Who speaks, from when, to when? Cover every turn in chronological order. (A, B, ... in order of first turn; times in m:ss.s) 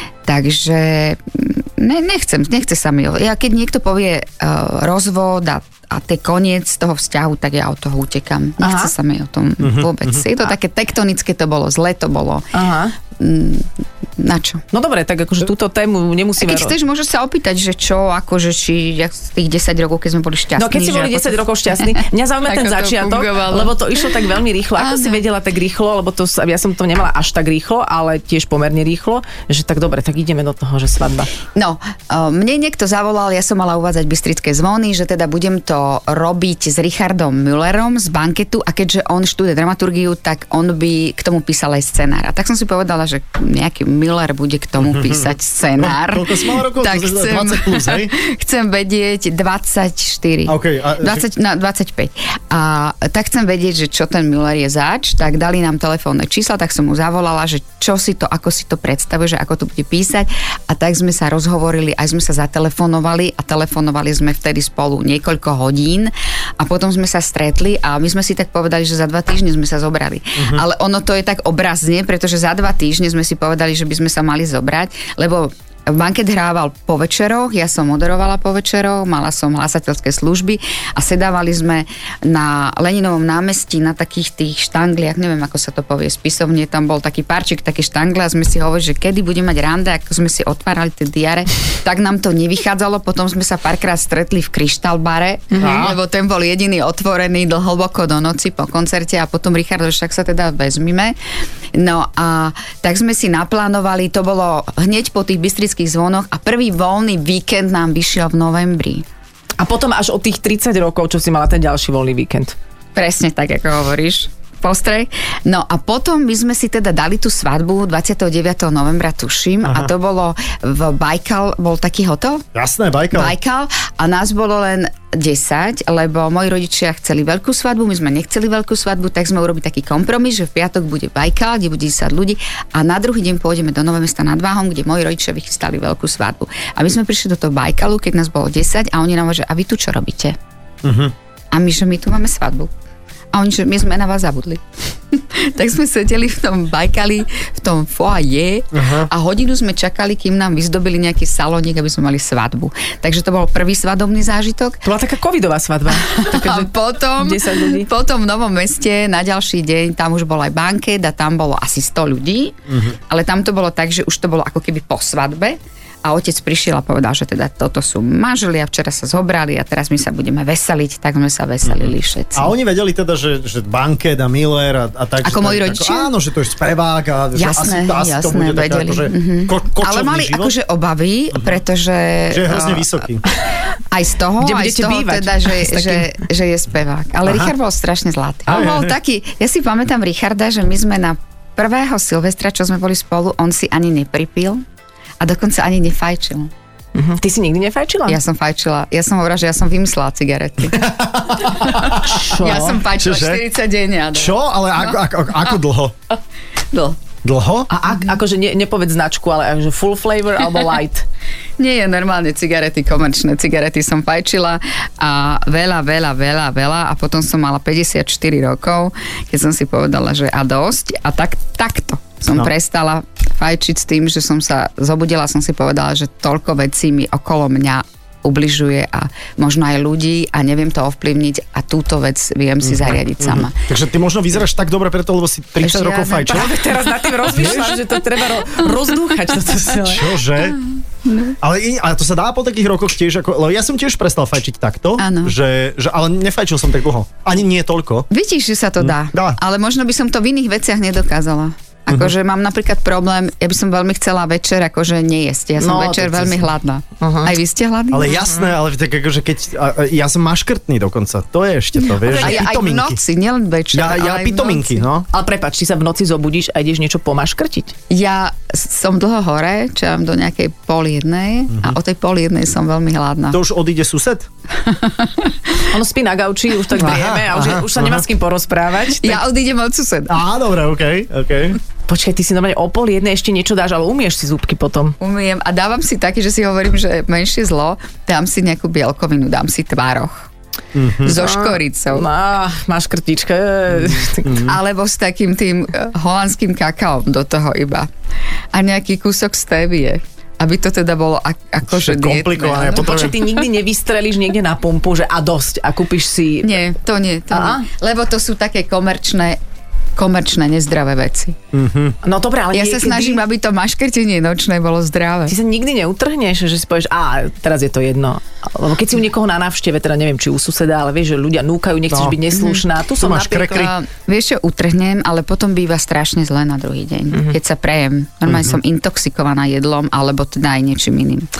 0:00.2-0:12.5 A
0:08.6-0:08.9 B
0:09.6-0:10.2 C
0:12.5-0:12.9 B
0:13.2-0:14.6 A
0:14.7-0:16.7 B
0:16.4-0:24.1 A
0:20.6-0:31.3 B
0:24.8-0:25.2 A
0:31.5-1:41.2 A
0:44.8-0:48.1 C
0:50.5-0:51.2 C
1:10.4-1:10.6 C
1:35.5-1:35.9 B
1:35.6-1:36.0 C
1:41.7-1:49.0 A
1:49.6-1:52.6 B
1:53.0-2:02.4 A
1:59.6-1:59.9 C
2:02.5-2:03.3 C
2:03.1-2:20.4 A
2:20.8-2:21.1 C
2:21.5-2:22.7 A
2:23.3-2:34.8 A
2:28.7-2:29.1 C
2:34.8-2:37.9 B
2:35.9-2:52.5 A
2:42.7-2:43.0 C
2:51.6-3:00.5 C
2:55.2-2:56.1 A
2:57.3-3:02.9 A
3:01.3-3:01.6 C
3:02.3-3:03.2 C
3:03.9-3:14.6 A
3:04.4-3:06.2 B
3:07.2-3:07.5 C
3:08.5-3:08.9 C
3:15.2-3:16.5 A
3:16.9-3:18.2 B
3:18.1-3:25.0 A
3:20.7-3:23.4 C
3:22.1-3:22.8 B
3:24.1-3:25.9 C
3:26.7-3:27.0 A
3:27.2-3:27.7 C
3:27.7-3:31.0 B
3:31.6-3:53.6 A
3:52.6-3:56.6 C
3:55.6-3:56.5 A
3:56.2-4:00.2 B
3:57.3-3:57.8 C
3:59.8-4:00.6 C
4:01.0-4:01.4 A
4:01.4-4:08.1 C
4:05.0-4:05.3 A
4:08.1-4:18.2 A
4:08.8-4:09.4 C
4:15.6-4:16.4 B
4:17.0-4:17.3 B
4:17.9-4:23.0 C
4:22.0-4:22.5 B
4:22.0-4:24.8 A
4:23.7-4:25.1 C
4:25.1-4:27.7 B
4:27.9-4:33.4 A
4:31.5-4:31.8 C
4:33.3-4:34.3 C
4:34.6-4:35.7 A
4:35.6-4:39.2 B
4:36.8-4:37.0 A
4:36.8-4:38.0 C
4:39.0-4:40.2 A
4:40.1-4:41.6 C
4:41.9-4:45.0 B
4:45.0-4:50.3 A
4:50.7-4:51.2 C
4:51.0-4:52.0 A
4:51.1-4:54.5 B
4:53.9-4:54.5 C
4:54.4-4:57.9 A
4:58.5-5:03.2 A
5:01.7-5:03.2 C
5:02.7-5:06.6 B
5:06.4-5:09.4 A
5:07.3-5:07.6 B
5:10.0-5:11.4 A
5:11.5-5:12.0 C
5:12.0-5:13.2 B
5:12.5-5:15.3 A
5:15.3-5:23.7 B
5:21.9-5:22.2 C
5:22.3-5:22.6 A
5:23.0-5:23.7 C
5:23.5-5:31.3 A
5:28.3-5:28.6 C